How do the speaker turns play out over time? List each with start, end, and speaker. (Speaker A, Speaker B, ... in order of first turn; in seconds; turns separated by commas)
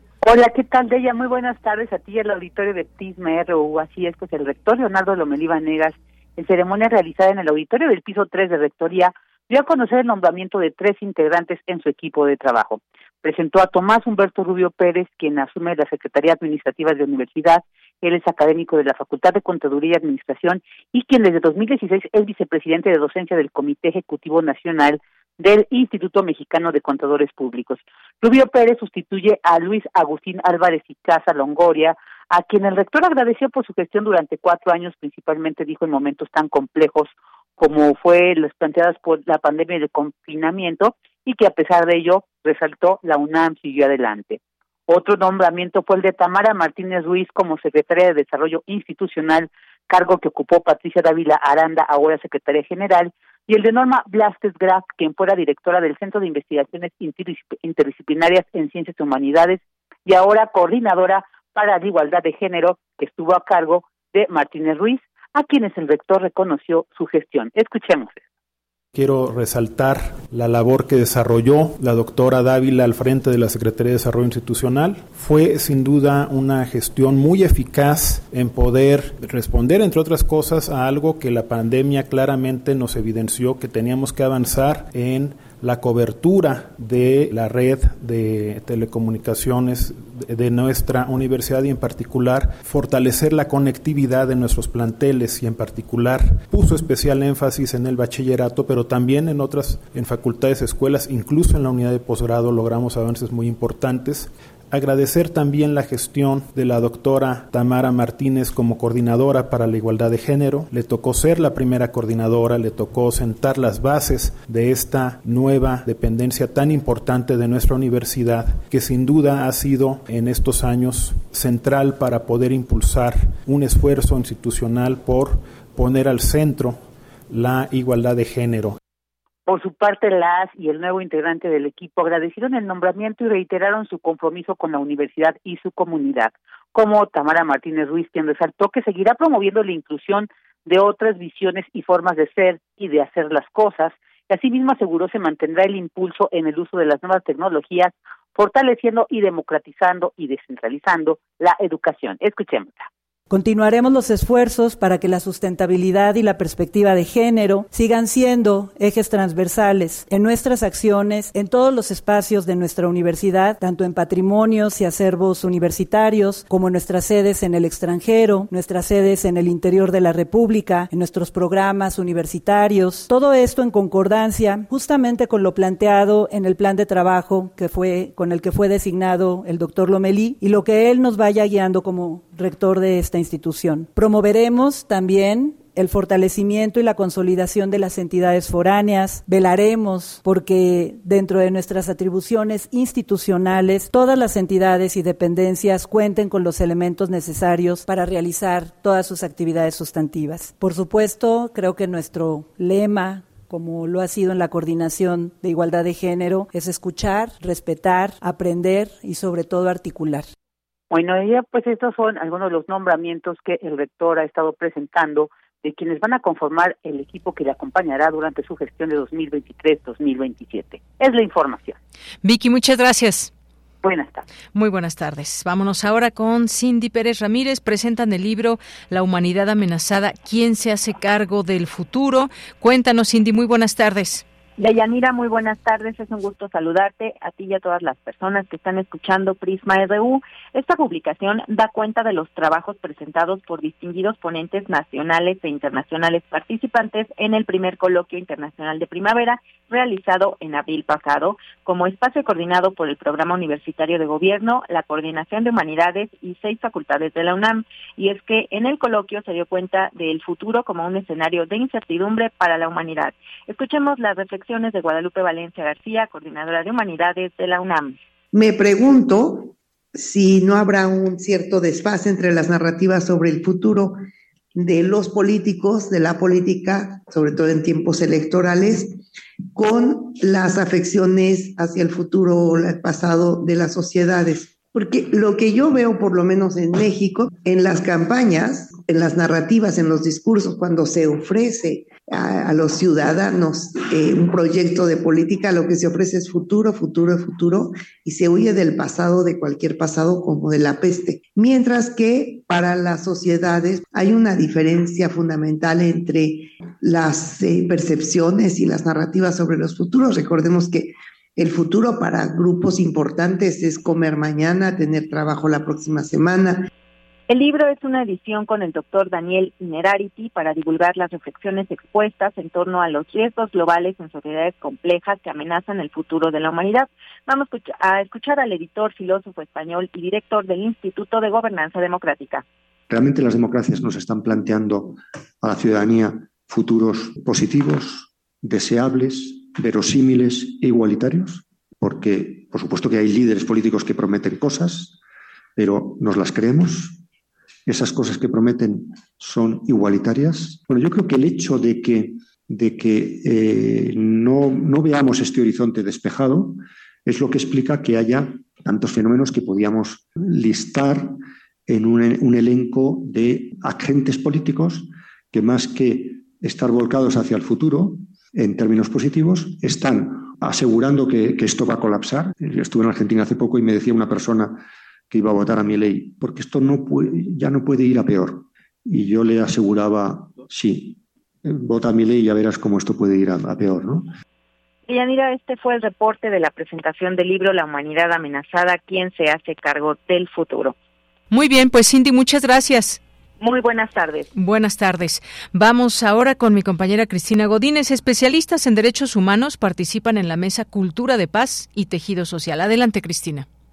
Speaker A: 0.2-68.2, Speaker B: 68.9-128.8, Speaker A: 129.5-152.9, Speaker C: 153.3-210.3, Speaker A: 210.9-221.8, Speaker D: 222.2-223.3, Speaker A: 223.8-224.2, Speaker D: 224.5-234.2, Speaker E: 234.6-267.9, Speaker F: 268.3-274.0, Speaker F: 274.6-279.0, Speaker F: 279.5-316.7, Speaker E: 317.3-332.4, Speaker G: 332.9-345.0, Speaker G: 345.6-347.0, Speaker G: 347.7-384.1, Speaker E: 384.9-390.7, Speaker D: 391.3-393.0, Speaker E: 393.4-394.3, Speaker D: 394.4-403.5